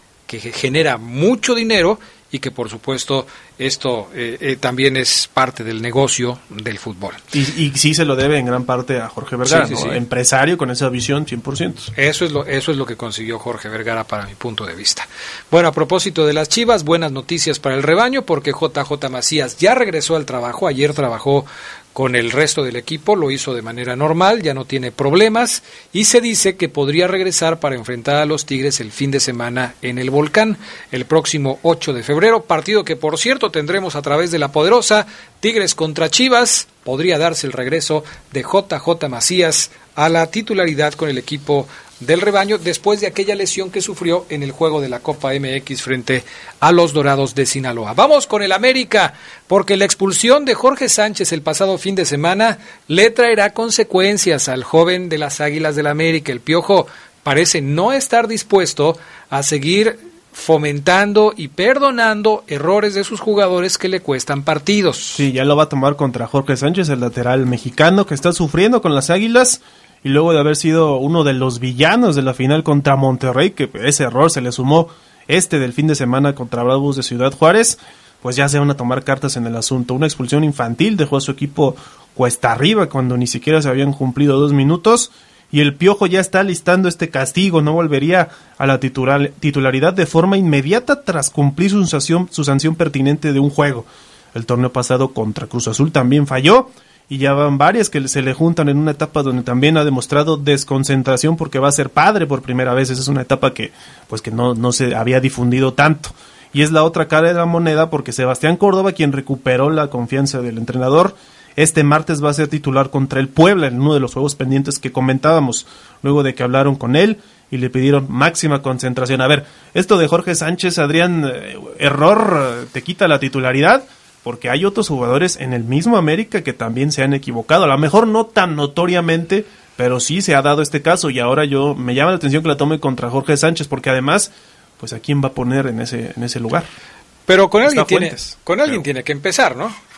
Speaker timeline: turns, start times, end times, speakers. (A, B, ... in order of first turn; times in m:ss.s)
0:00.3-0:07.2 A
0:07.3-0:11.9 B
0:09.4-0:10.0 A
0:12.0-1:05.3 A
1:05.2-2:16.7 B
2:17.3-2:19.8 A
2:17.6-2:18.8 B